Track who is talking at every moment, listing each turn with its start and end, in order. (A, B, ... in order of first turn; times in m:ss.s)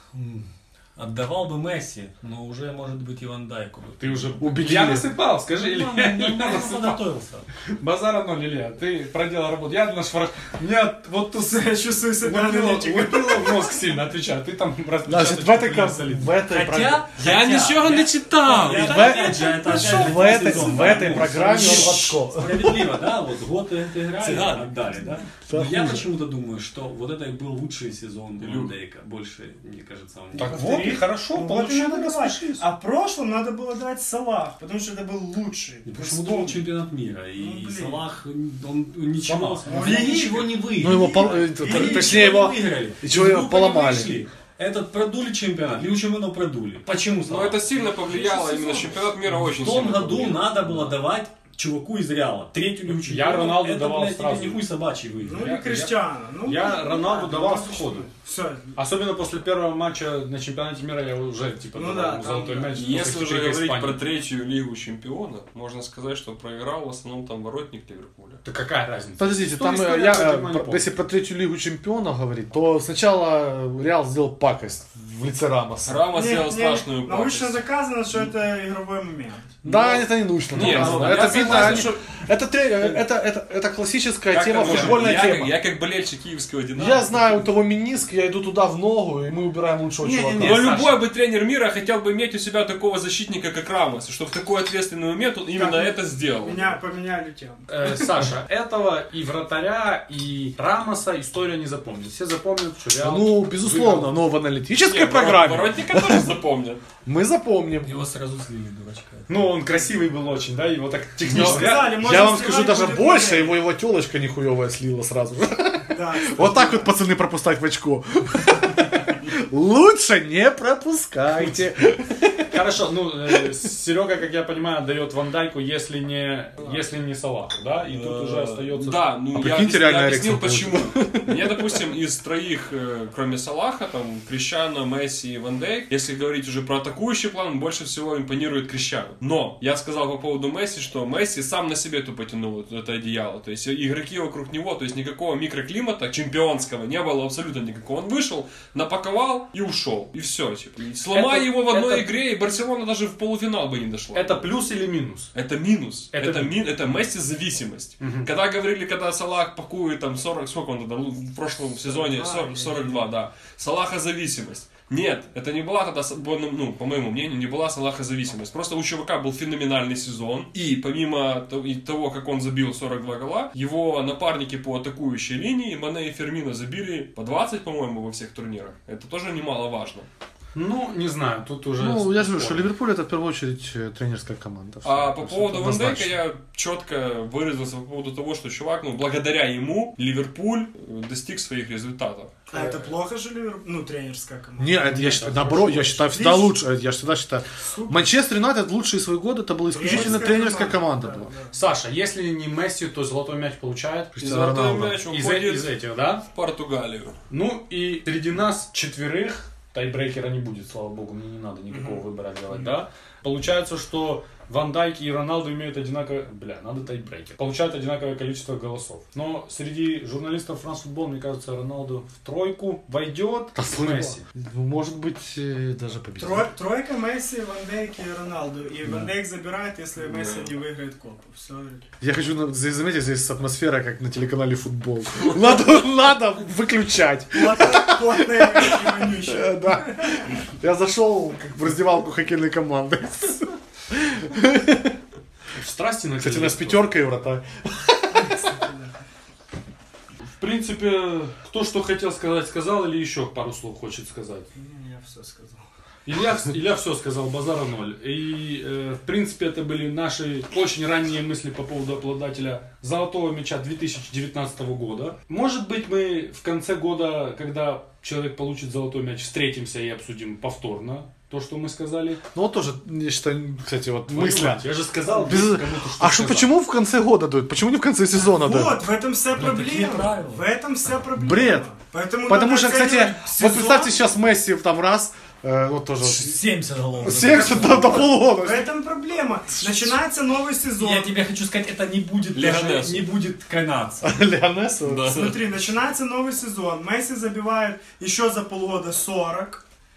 0:00.1-0:04.7 A
0:04.0-0:07.0 B
0:04.4-0:05.1 C
0:05.5-0:07.5 A
0:07.7-0:16.4 B
0:11.4-0:13.8 D
0:15.0-0:17.1 C
0:16.5-0:30.9 A
0:17.2-0:20.0 E
0:18.6-0:21.8 B
0:18.6-0:23.0 C
0:24.2-0:24.7 C
0:25.3-0:26.1 C
0:28.4-0:28.7 E
0:30.3-0:36.6 D
0:30.4-0:32.7 B
0:35.8-0:47.6 A
0:37.4-0:38.0 D
0:39.3-0:40.3 B
0:39.7-0:42.1 D
0:40.8-0:44.1 C
0:47.2-0:50.9 E
0:48.1-0:49.0 B
0:49.5-0:55.6 A
0:52.8-0:54.6 B
0:55.2-0:58.7 D
0:55.4-0:58.1 B
0:58.8-1:04.0 B
1:01.7-1:02.8 D
1:02.7-1:08.4 E
1:08.4-1:11.0 B
1:09.2-1:16.1 C
1:15.8-1:17.6 E
1:16.1-1:19.6 D
1:19.6-1:25.6 C
1:20.5-1:22.0 B
1:20.5-1:22.0 E
1:22.8-1:23.1 B
1:24.3-1:27.4 E
1:24.6-1:25.0 B
1:26.8-1:30.7 C
1:30.0-1:31.0 B
1:30.4-1:36.8 E
1:35.5-1:37.7 D
1:37.7-1:44.2 B
1:43.0-1:46.4 C
1:44.8-1:46.8 E
1:47.0-1:47.9 C
1:47.8-1:49.5 A
1:49.3-1:52.0 B
1:51.2-2:02.5 C
1:51.3-1:53.6 D
1:55.9-1:56.9 D
2:02.5-2:09.1 B
2:07.9-2:34.5 E
2:09.3-2:11.7 C
2:31.1-2:32.1 B
2:34.1-2:35.3 B
2:35.3-3:00.1 E
2:36.1-2:36.6 B
2:38.0-2:38.3 B
2:41.9-2:43.0 D
3:00.6-3:02.7 B
3:01.8-3:06.2 C
3:04.8-3:12.4 E
3:12.5-3:15.3 D
3:12.5-3:12.9 B
3:14.6-3:21.3 C
3:14.8-3:16.2 B
3:16.1-3:16.5 D
3:17.6-3:18.0 D
3:19.7-3:21.5 D
3:21.5-3:24.2 B
3:24.2-3:25.0 C
3:24.2-3:27.2 E
3:25.0-3:26.3 B
3:27.3-3:44.2 B
3:31.7-3:32.8 D
3:43.6-3:46.5 C
3:46.2-3:51.8 D
3:48.8-3:49.1 C
3:50.0-3:50.5 E
3:52.0-4:05.0 C
3:57.3-4:00.2 D
4:05.5-4:06.9 B
4:06.2-4:08.6 C
4:08.1-4:09.0 D
4:10.4-4:14.5 B
4:14.6-4:15.6 D
4:16.1-4:32.2 B
4:32.3-4:38.8 C
4:34.1-4:36.5 B
4:38.2-4:43.8 D
4:39.3-4:40.4 A
4:41.2-4:41.7 C
4:42.3-4:46.4 C
4:43.3-4:43.9 A
4:46.0-4:48.1 A
4:47.0-4:48.7 C
4:48.4-4:51.2 D
4:49.6-4:50.0 C
4:50.8-4:54.1 A
4:52.4-4:53.1 E
4:54.0-4:55.3 C
4:54.8-4:55.4 E
4:55.1-4:59.6 D